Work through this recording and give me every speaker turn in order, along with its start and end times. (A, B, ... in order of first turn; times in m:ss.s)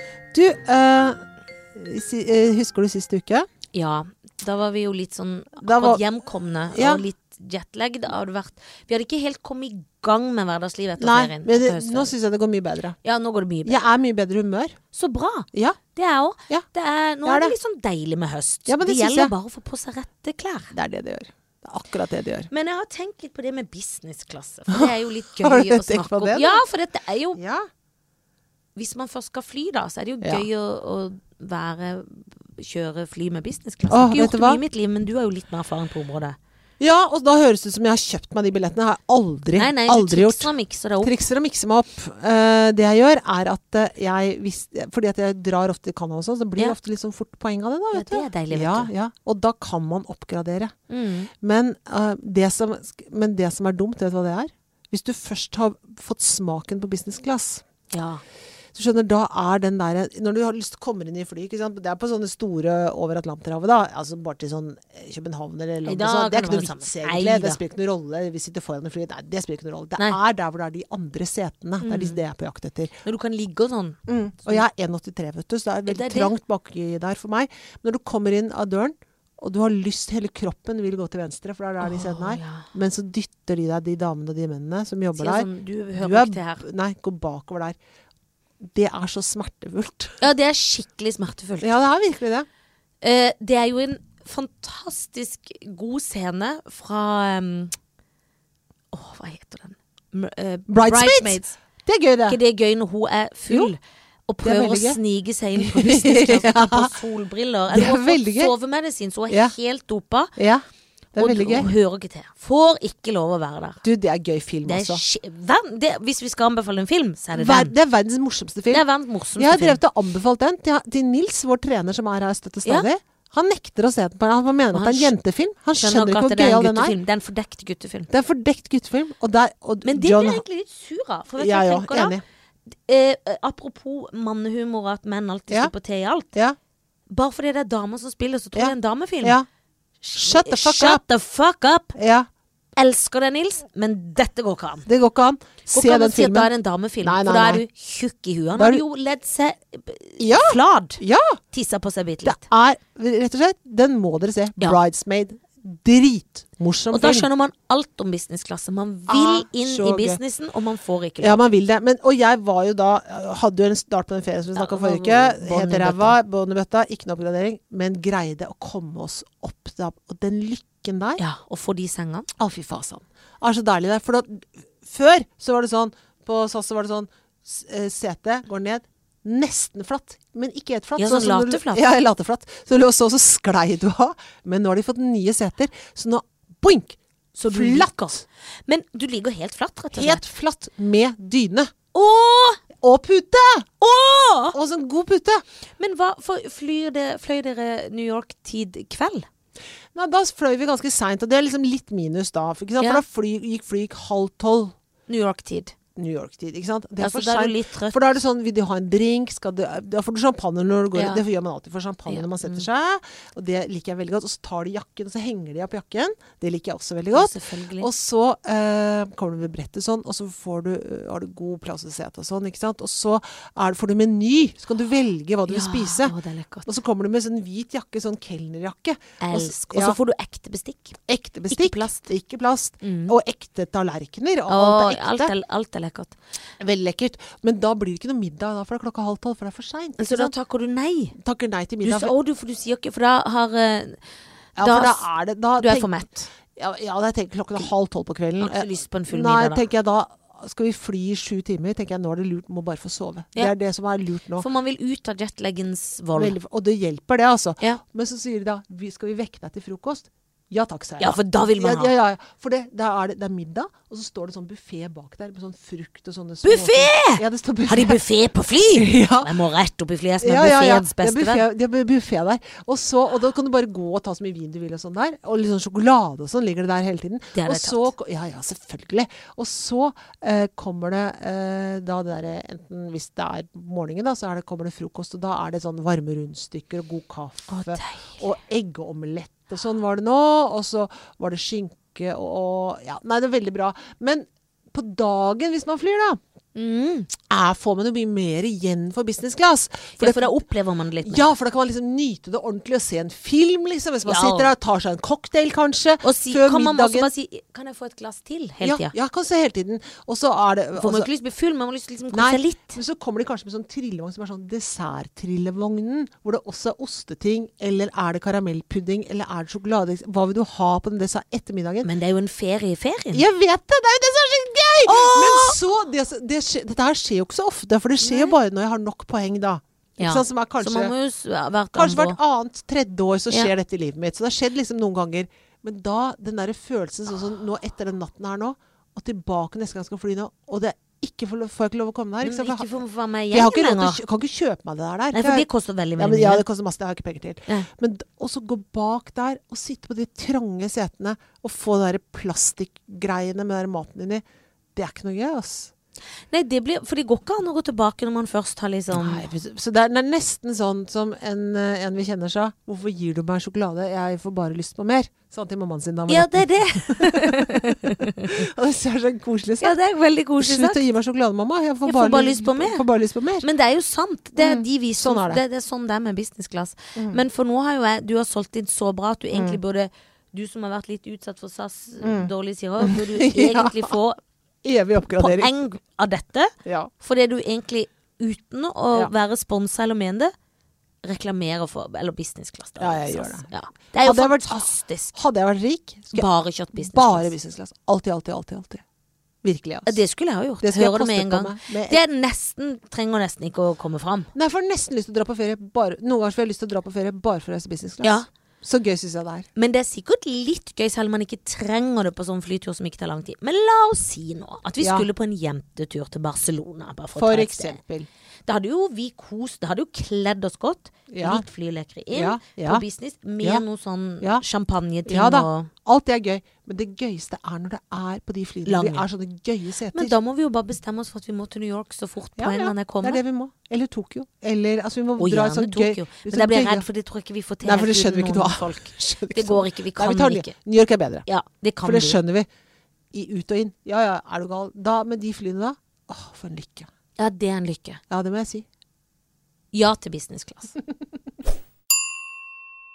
0:00.3-0:01.2 A
0:01.8-0:03.5 A
0:03.7-0:12.1 B
0:05.6-0:06.0 A
0:06.7-0:07.0 A
0:11.0-0:13.0 A
0:13.0-0:13.8 B
0:13.6-0:14.8 A
0:14.9-0:20.8 B
0:15.5-0:15.8 A
0:17.2-0:17.6 A
0:18.7-0:19.3 A
0:20.8-0:22.5 A
0:22.5-0:27.4 B
0:24.7-0:26.6 A
0:27.4-0:27.7 A
0:28.8-0:36.4 B
0:33.9-0:34.6 A
0:36.8-0:40.5 A
0:39.6-0:41.1 B
0:41.0-0:50.7 A
0:47.9-0:48.9 B
0:50.9-0:51.3 B
0:51.4-0:57.6 A
0:57.9-0:58.2 B
0:58.7-1:13.0 A
1:05.8-1:07.6 B
1:11.8-1:12.2 B
1:13.0-1:14.6 B
1:14.1-1:27.8 A
1:15.9-1:16.3 B
1:21.8-1:22.7 B
1:25.2-1:26.6 B
1:28.6-1:30.2 A
1:30.2-1:31.7 B
1:31.6-1:32.5 A
1:33.0-1:37.7 B
1:38.9-1:41.6 B
1:40.7-1:42.4 A
1:42.3-1:50.3 B
1:44.4-1:45.0 A
1:45.6-1:47.0 A
1:47.7-1:48.5 A
1:49.3-1:49.5 A
1:50.4-1:50.6 A
1:51.2-1:51.7 A
1:51.2-1:53.8 B
1:53.8-1:55.0 A
1:54.7-1:57.7 B
1:57.4-1:58.8 A
1:58.7-1:59.8 B
1:59.4-2:07.0 A
2:04.7-2:05.1 B
2:05.8-2:08.1 B
2:08.1-2:10.4 A
2:09.8-2:16.3 B
2:11.4-2:12.2 A
2:17.1-2:19.4 B
2:18.6-2:19.5 A
2:20.0-2:22.0 B
2:20.2-2:21.0 A
2:22.0-2:22.3 A
2:22.8-2:24.9 B
2:24.9-2:26.5 A
2:25.7-2:32.4 B
2:27.0-2:27.6 A
2:28.6-2:28.8 A
2:30.2-2:31.4 A
2:32.2-2:37.3 A
2:36.9-2:41.4 B
2:39.1-2:40.2 A
2:41.2-2:51.2 A
2:44.6-2:46.2 B
2:51.2-2:52.3 B
2:52.4-3:07.0 A
3:01.0-3:01.9 B
3:07.4-3:10.3 B
3:07.5-3:08.2 A
3:09.9-3:11.7 A
3:11.9-3:12.6 B
3:12.8-3:13.7 A
3:13.8-3:14.6 B
3:14.5-3:15.4 A
3:15.8-3:19.3 B
3:20.0-3:24.7 A
3:25.1-3:25.7 B
3:26.0-3:50.0 A
3:27.0-3:28.0 B
3:31.0-3:31.2 B
3:32.1-3:32.7 B
3:37.1-3:37.9 B
3:45.5-3:46.7 B
3:49.2-3:51.0 B
3:51.1-3:55.3 A
3:51.5-3:52.1 B
3:52.8-3:53.2 B
3:54.5-3:56.2 B
3:56.6-4:00.3 A
4:00.0-4:01.2 B
4:01.2-4:02.1 A
4:01.8-4:04.0 B
4:04.6-4:06.3 B
4:04.6-4:14.5 A
4:08.4-4:09.6 B
4:14.4-4:16.4 B
4:16.2-4:28.0 A
4:21.0-4:21.9 B
4:26.4-4:31.4 B
4:28.7-4:29.3 A
4:30.2-4:56.2 A
4:37.3-4:37.9 B
4:47.5-4:48.2 B
4:56.6-4:57.1 B
4:57.3-5:00.4 A
5:00.0-5:01.3 B
5:01.0-5:07.1 A
5:04.0-5:04.5 B
5:06.0-5:08.9 B
5:08.6-5:11.1 A
5:10.8-5:12.8 B
5:12.1-5:21.9 A
5:21.8-5:23.2 B
5:23.1-5:30.9 A
5:24.8-5:25.6 B
5:28.0-5:28.4 B
5:30.0-5:32.2 B
5:31.7-5:42.7 A
5:42.2-5:44.0 B
5:43.3-5:54.2 A
5:45.1-5:46.4 B
5:54.8-5:55.7 A
5:56.3-5:59.2 B
5:58.9-6:09.8 A
6:06.1-6:08.3 B
6:09.6-6:10.8 B
6:10.4-6:13.5 A
6:11.8-6:12.8 B
6:13.4-6:24.2 B
6:14.4-6:15.4 A
6:19.3-6:19.6 A
6:22.0-6:24.0 A
6:24.6-6:25.5 A
6:25.1-6:30.3 B
6:26.6-6:26.9 A
6:31.0-6:35.1 B
6:32.8-6:33.5 A
6:34.0-6:38.8 A
6:36.1-6:37.3 B
6:39.4-6:40.0 A
6:39.9-6:44.3 B
6:40.6-6:42.0 A
6:44.4-6:49.5 A
6:48.0-6:48.3 B
6:49.6-6:57.8 B
6:54.8-6:55.1 A
6:57.2-6:58.1 A
6:58.5-7:05.7 B
7:01.1-7:01.4 A
7:02.1-7:02.8 A
7:05.1-7:10.2 A
7:08.7-7:09.1 B
7:09.9-7:13.2 B
7:12.4-7:16.9 A
7:15.2-7:20.5 B
7:17.6-7:21.3 A
7:21.3-7:22.2 B
7:21.8-7:22.5 A
7:23.1-7:26.9 A
7:27.2-7:28.0 B
7:28.1-7:28.6 A
7:29.7-7:30.8 B